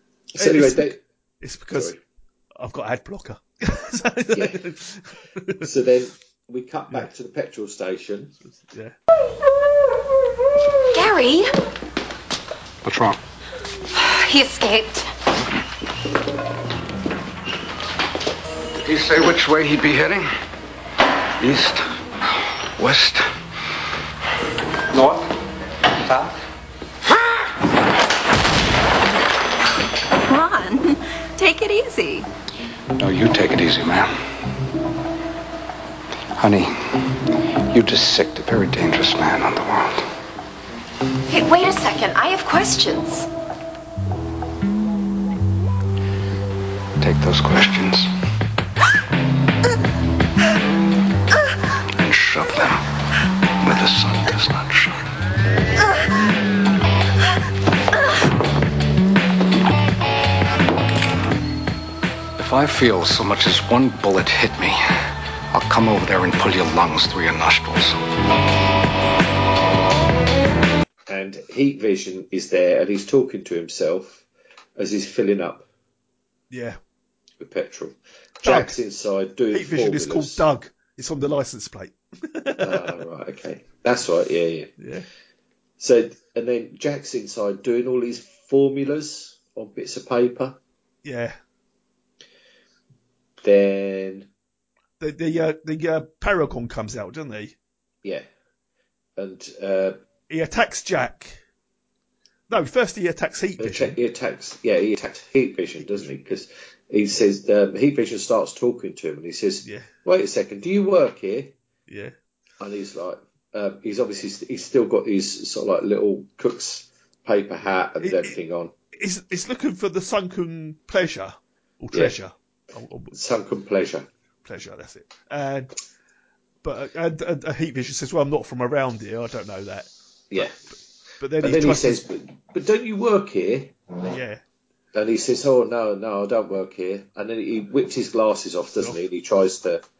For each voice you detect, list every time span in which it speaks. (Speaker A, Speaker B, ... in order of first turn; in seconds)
Speaker A: 0.3-1.0, 4.3-4.6, 5.6-8.3, 71.1-74.2, 74.8-75.7, 77.4-80.4, 82.6-84.8, 85.8-90.6, 93.4-94.3, 99.2-100.0, 103.6-111.5, 112.6-118.7, 123.1-124.1, 130.3-130.6, 131.4-133.8, 134.9-139.8
Speaker B: 0.4-1.9, 2.6-5.7, 8.5-8.9, 76.5-76.8, 78.4-78.8, 79.5-82.9, 84.8-85.1, 91.0-91.4, 95.0-97.5, 100.3-101.4, 102.5-104.0, 105.8-106.1, 111.9-112.1, 118.0-118.3, 119.0-123.1, 124.5-125.7, 126.6-130.5, 131.2-132.0, 134.1-134.4
Speaker C: 10.9-11.5, 13.9-15.1, 30.2-32.3, 41.3-43.3
Speaker D: 12.8-13.2, 18.8-20.3, 21.4-21.8, 22.8-23.3, 24.9-25.4, 26.0-26.3, 33.0-34.1, 36.4-37.1, 37.7-40.1, 47.0-48.1, 52.0-52.8, 53.6-55.0, 62.4-64.8, 65.5-68.0